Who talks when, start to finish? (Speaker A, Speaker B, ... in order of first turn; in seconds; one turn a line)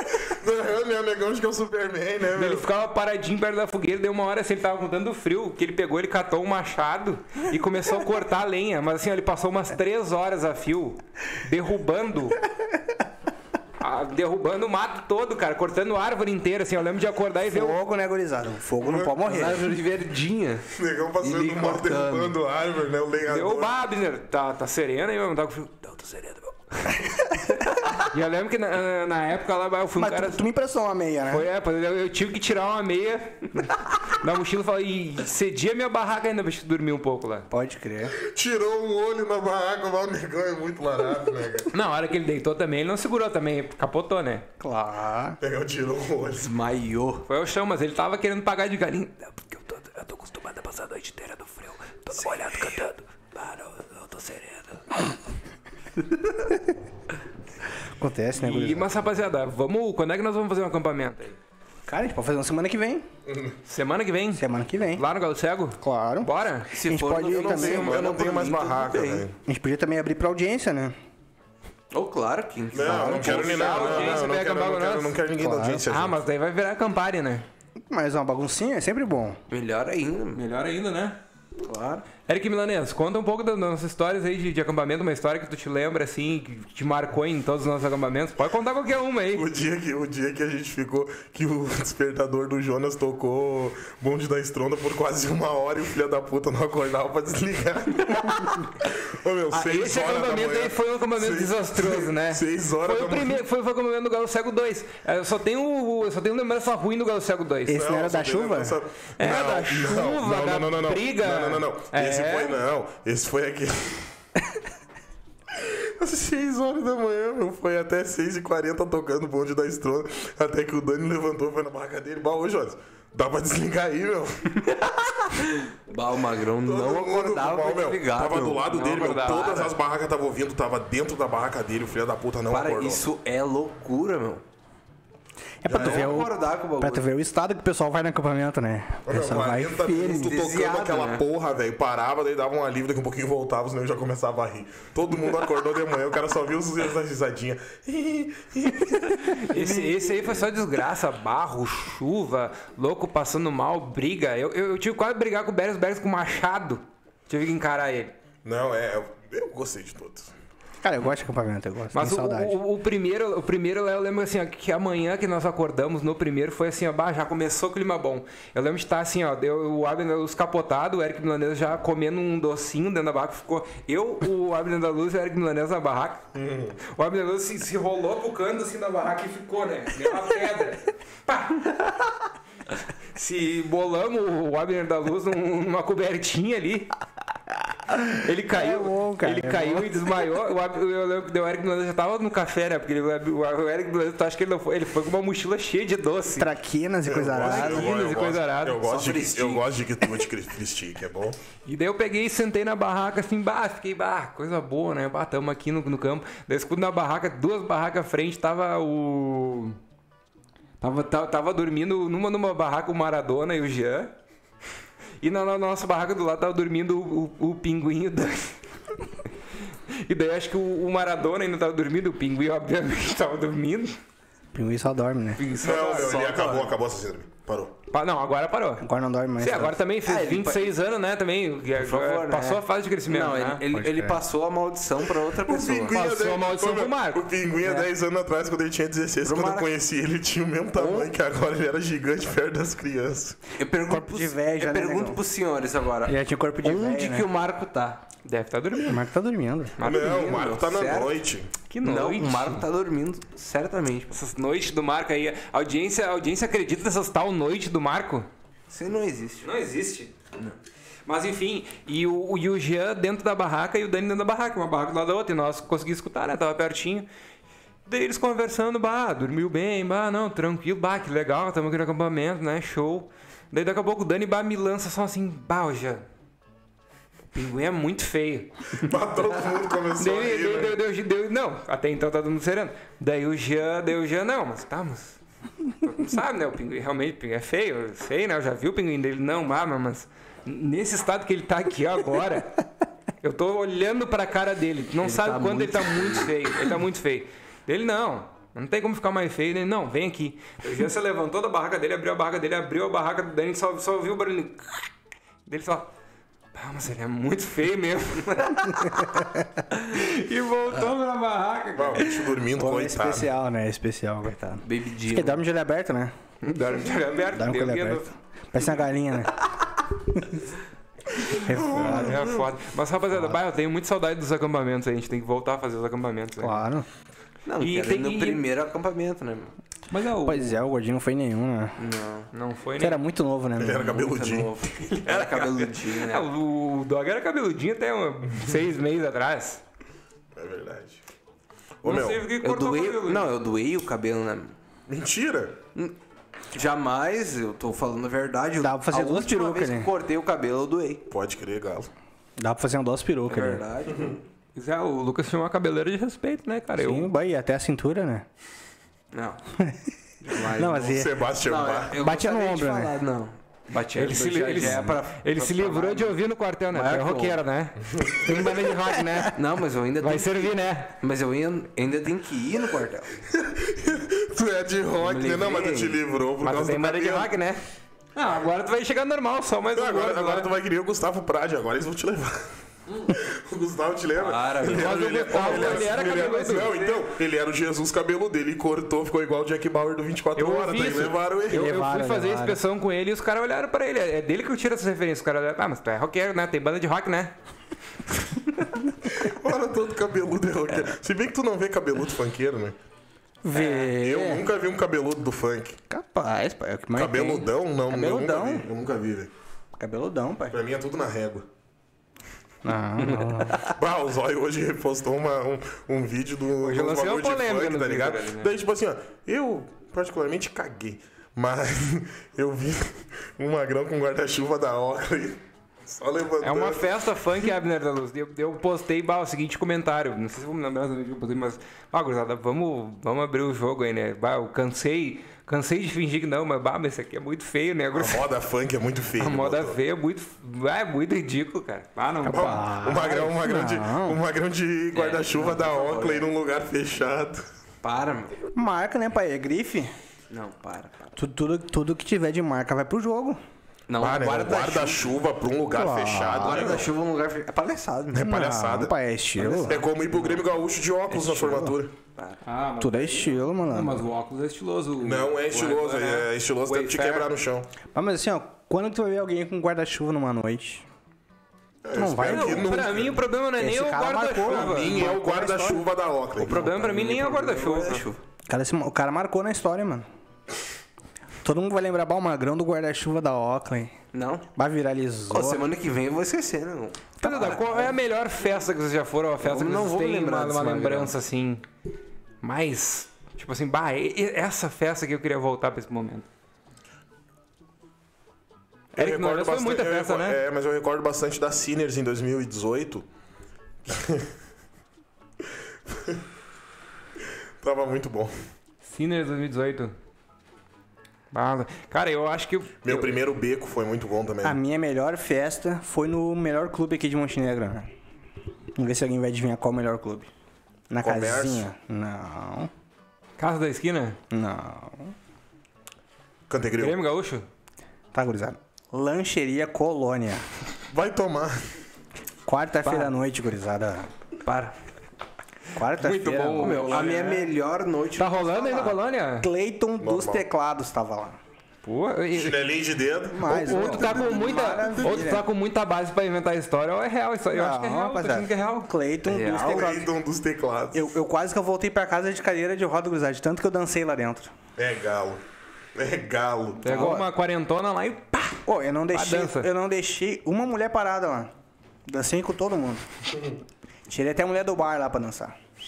Speaker A: 0.2-2.7
Speaker B: 2.4-12.4
Speaker B: 13.8-17.8
Speaker C: 17.5-19.7
Speaker A: 18.8-19.1
Speaker D: 19.2-20.7
Speaker A: 20.7-23.7
Speaker D: 21.2-22.3
Speaker B: 23.3-27.0
Speaker B: 28.0-30.4
Speaker C: 30.0-31.5
Speaker B: 31.3-37.5
Speaker C: 37.5-38.1
Speaker A: 38.2-41.7
Speaker B: 41.7-44.5
Speaker C: 44.6-45.4
Speaker A: 45.4-46.5
Speaker D: 46.4-47.2
Speaker B: 47.3-54.8
Speaker C: 58.0-58.9
Speaker B: 58.4-61.4
Speaker C: 61.9-63.0
Speaker A: 63.3-63.6
Speaker B: 63.7-64.4
Speaker C: 64.4-65.0
Speaker B: 64.9-66.8
Speaker C: 65.8-66.3
Speaker D: 66.7-69.3
Speaker C: 66.8-68.0
Speaker A: 67.2-69.3
Speaker C: 69.5-71.0
Speaker D: 71.9-74.3
Speaker A: 72.7-76.2
Speaker C: 72.8-73.5
Speaker B: 73.3-75.2
Speaker C: 75.4-75.8
Speaker B: 75.9-77.5
Speaker C: 77.9-79.4
Speaker D: 79.5-80.4
Speaker B: 80.3-81.2
Speaker D: 81.6-82.1
Speaker B: 82.3-89.5
Speaker A: 89.3-103.4
Speaker B: 99.5-107.8
Speaker C: 107.7-108.8
Speaker A: 107.7-114.1
Speaker B: 109.2-112.6
Speaker A: 115.5-124.6
Speaker D: 125.0-128.8
Speaker A: 126.6-133.1
Speaker B: 128.7-129.7
Speaker D: 132.5-134.4
Speaker C: 135.6-140.4
Speaker A: 135.7-136.2
Speaker D: 135.7-137.1
Speaker A: 139.1-149.3
Speaker D: 140.1-141.2
Speaker B: 149.2-158.1
Speaker A: 158.4-160.3
Speaker C: 160.8-162.6
Speaker B: 161.9-176.2
Speaker A: 176.3-176.8
Speaker B: 176.8-181.9
Speaker B: 183.2-186.9
Speaker B: 188.0-196.5
Speaker C: 188.5-189.9
Speaker C: 196.4-197.9
Speaker A: 197.1-201.4
Speaker B: 197.4-198.9
Speaker D: 198.9-199.7
Speaker B: 201.7-209.8
Speaker B: 210.8-214.1
Speaker B: 215.2-218.6
Speaker B: 219.9-224.0
Speaker C: 224.5-225.4
Speaker B: 225.4-226.2
Speaker D: 225.6-226.7
Speaker A: 225.6-227.7
Speaker B: 227.9-228.8
Speaker C: 228.8-229.8
Speaker B: 229.4-233.6
Speaker D: 230.1-230.7
Speaker D: 231.8-235.9
Speaker C: 233.7-234.2
Speaker A: 235.3-243.4
Speaker B: 235.9-237.2
Speaker D: 237.6-237.9
Speaker D: 239.2-239.7
Speaker D: 240.8-241.1
Speaker D: 243.6-248.0
Speaker C: 243.9-245.2
Speaker C: 246.1-247.3
Speaker B: 248.2-249.0
Speaker C: 248.8-249.8
Speaker B: 249.8-250.4
Speaker A: 249.8-251.5
Speaker D: 249.9-251.2
Speaker B: 251.7-252.6
Speaker D: 251.8-254.2
Speaker B: 254.1-258.3
Speaker D: 258.7-259.5
Speaker B: 259.4-260.1
Speaker B: 261.1-267.1
Speaker B: 267.9-276.1
Speaker B: 277.3-278.9
Speaker A: 278.8-280.8
Speaker B: 280.0-285.2
Speaker B: 285.7-292.6
Speaker B: 293.2-304.9
Speaker D: 295.0-296.3
Speaker B: 305.5-305.9
Speaker B: 306.6-312.1
Speaker C: 309.0-309.5
Speaker A: 311.8-313.3
Speaker C: 312.5-316.1
Speaker D: 314.6-315.4
Speaker B: 316.4-318.0
Speaker C: 317.3-319.4
Speaker C: 321.3-322.2
Speaker A: 321.5-322.4
Speaker B: 321.6-326.6
Speaker C: 326.4-326.9
Speaker D: 327.5-329.5
Speaker B: 327.6-328.4
Speaker B: 329.9-330.6
Speaker C: 330.2-331.8
Speaker D: 331.8-332.3
Speaker B: 332.3-333.0
Speaker C: 332.8-333.9
Speaker A: 333.6-334.6
Speaker D: 333.7-336.3
Speaker B: 334.9-339.6
Speaker A: 340.4-341.0
Speaker A: 341.8-342.3
Speaker B: 341.8-343.3
Speaker D: 342.4-344.6
Speaker A: 344.9-345.6
Speaker D: 346.5-351.0
Speaker C: 348.6-349.9
Speaker A: 351.1-351.9
Speaker C: 352.4-353.6
Speaker D: 353.3-354.2
Speaker B: 354.6-357.1
Speaker C: 356.8-358.3
Speaker D: 359.1-359.4
Speaker C: 359.6-359.9
Speaker D: 360.2-366.2
Speaker C: 360.5-361.1
Speaker A: 360.8-361.9
Speaker C: 362.0-362.9
Speaker B: 363.9-369.4
Speaker D: 366.7-367.4
Speaker A: 367.9-368.4
Speaker D: 369.3-373.1
Speaker B: 370.0-370.9
Speaker A: 373.3-377.3
Speaker D: 375.0-376.0
Speaker B: 376.4-377.6
Speaker B: 378.1-380.5
Speaker A: 379.7-382.5
Speaker D: 382.9-383.1
Speaker A: 383.1-391.7
Speaker D: 384.2-386.3
Speaker B: 384.7-387.1
Speaker B: 390.4-397.3
Speaker C: 391.5-392.6
Speaker A: 399.1-402.8
Speaker C: 403.4-404.5
Speaker A: 403.7-405.8
Speaker C: 405.9-408.7
Speaker A: 406.9-409.3
Speaker C: 409.8-410.6
Speaker A: 410.5-411.5
Speaker C: 412.6-413.6
Speaker D: 413.0-413.7
Speaker A: 413.7-426.9
Speaker B: 416.6-418.5
Speaker B: 426.4-438.3
Speaker A: 437.9-439.8
Speaker B: 439.2-442.6
Speaker A: 442.2-447.4
Speaker C: 442.3-444.2
Speaker D: 444.9-446.3
Speaker D: 447.8-448.4
Speaker C: 448.5-449.9
Speaker D: 450.3-451.1
Speaker C: 451.2-453.4
Speaker D: 453.9-455.1
Speaker A: 454.0-456.9
Speaker C: 455.7-456.8
Speaker D: 456.4-458.3
Speaker A: 458.1-458.9
Speaker C: 458.2-459.8
Speaker D: 459.4-460.4
Speaker A: 459.6-461.9
Speaker C: 461.1-461.8
Speaker B: 462.4-467.3
Speaker C: 462.8-464.0
Speaker A: 465.0-467.7
Speaker C: 467.9-470.9
Speaker A: 471.8-473.2
Speaker C: 471.9-472.8
Speaker B: 472.2-475.0
Speaker C: 473.6-475.9
Speaker A: 474.4-476.7
Speaker D: 476.4-478.2
Speaker B: 476.5-478.1
Speaker C: 478.5-480.1
Speaker C: 481.4-483.9
Speaker D: 484.1-484.4
Speaker C: 484.6-485.6
Speaker D: 485.3-487.9
Speaker C: 487.2-487.9
Speaker B: 487.2-491.6
Speaker D: 489.4-491.1
Speaker B: 492.4-496.3
Speaker A: 498.9-503.1
Speaker B: 499.0-500.4
Speaker A: 503.9-504.3
Speaker A: 505.9-506.2
Speaker A: 507.6-508.3
Speaker B: 508.9-509.9
Speaker B: 511.3-513.2
Speaker A: 512.8-514.6
Speaker C: 514.4-517.9
Speaker C: 518.8-520.3
Speaker C: 520.9-522.7
Speaker A: 521.0-521.7
Speaker B: 523.4-524.2
Speaker C: 524.3-525.1
Speaker A: 526.5-527.0
Speaker B: 526.8-527.5
Speaker C: 528.1-530.5
Speaker A: 530.9-531.6
Speaker C: 532.5-534.1
Speaker D: 532.8-533.1
Speaker D: 534.4-534.8
Speaker C: 535.8-537.2
Speaker B: 536.0-537.5
Speaker D: 536.6-539.0
Speaker B: 538.2-539.5
Speaker C: 539.4-541.4
Speaker A: 540.0-540.4
Speaker B: 541.8-542.6
Speaker A: 542.3-544.3
Speaker C: 543.3-545.5
Speaker B: 543.5-548.9
Speaker C: 547.5-550.1
Speaker D: 549.2-549.9
Speaker A: 549.5-551.0
Speaker C: 550.9-554.5
Speaker A: 554.8-555.4
Speaker A: 556.0-556.9
Speaker B: 556.8-558.6
Speaker C: 556.8-557.3
Speaker C: 558.7-561.5
Speaker B: 559.1-559.7
Speaker C: 562.1-563.0
Speaker C: 564.1-565.6